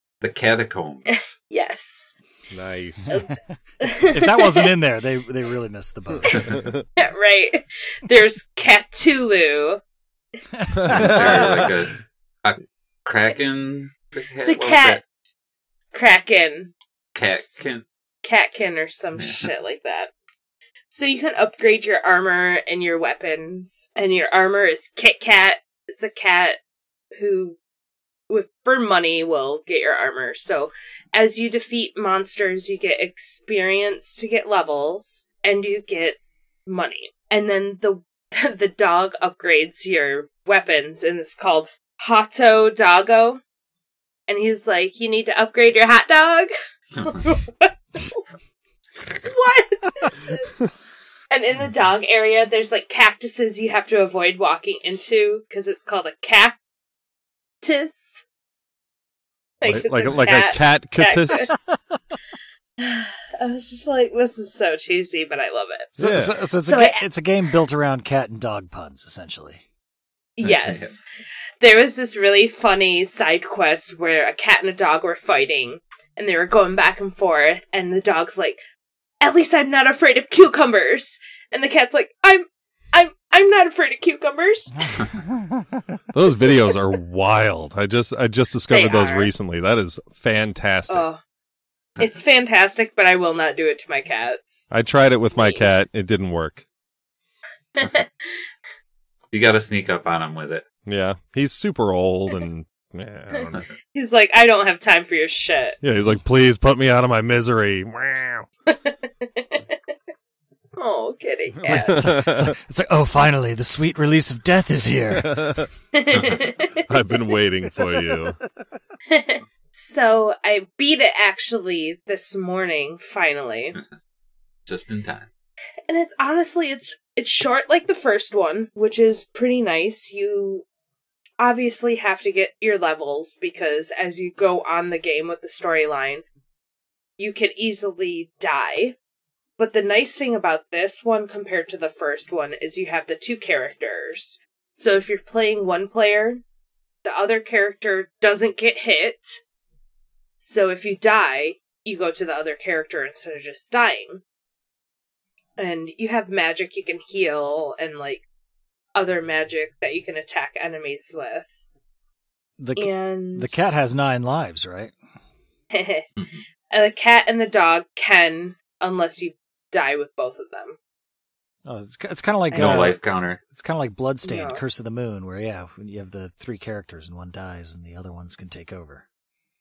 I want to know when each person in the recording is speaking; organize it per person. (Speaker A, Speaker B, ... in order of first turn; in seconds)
Speaker A: 0.2-1.3, 10.8-15.0, 17.1-17.8, 19.2-19.5, 47.0-47.2, 70.4-70.9, 99.3-100.6, 124.7-125.3, 172.5-173.4
Speaker B: 1.2-2.1, 3.1-4.7, 7.0-9.8, 14.5-15.0, 15.9-16.7, 17.3-17.6, 18.2-20.1, 20.9-26.6, 27.2-27.6, 28.3-43.4, 44.3-46.5, 47.0-48.3, 49.0-50.4, 51.3-56.6, 57.6-58.2, 59.6-61.6, 62.8-67.1, 70.4-71.0, 71.6-78.6, 79.2-85.1, 88.7-89.3, 90.9-91.2, 92.0-94.7, 95.3-95.6, 97.8-98.3, 103.3-105.8, 108.7-109.8, 110.8-112.1, 115.9-116.8, 119.1-123.8, 125.9-130.7, 131.4-136.2, 137.2-139.0, 139.6-146.4, 147.0-149.4, 150.4-154.2, 155.6-158.2, 158.9-161.5, 162.8-163.7, 165.7-166.1, 166.7-170.8, 172.5-173.0, 174.2-174.6
Speaker C: 2.5-3.2, 6.5-6.8, 10.8-11.7, 59.6-61.5, 66.0-66.3, 86.1-91.1, 94.7-96.7, 100.9-103.6, 105.8-108.5, 111.7-112.5, 115.2-118.4
Speaker D: 4.0-6.6, 10.6-11.0, 66.0-69.6, 84.8-85.8, 111.6-115.6, 162.6-164.9, 171.7-173.0, 173.5-179.1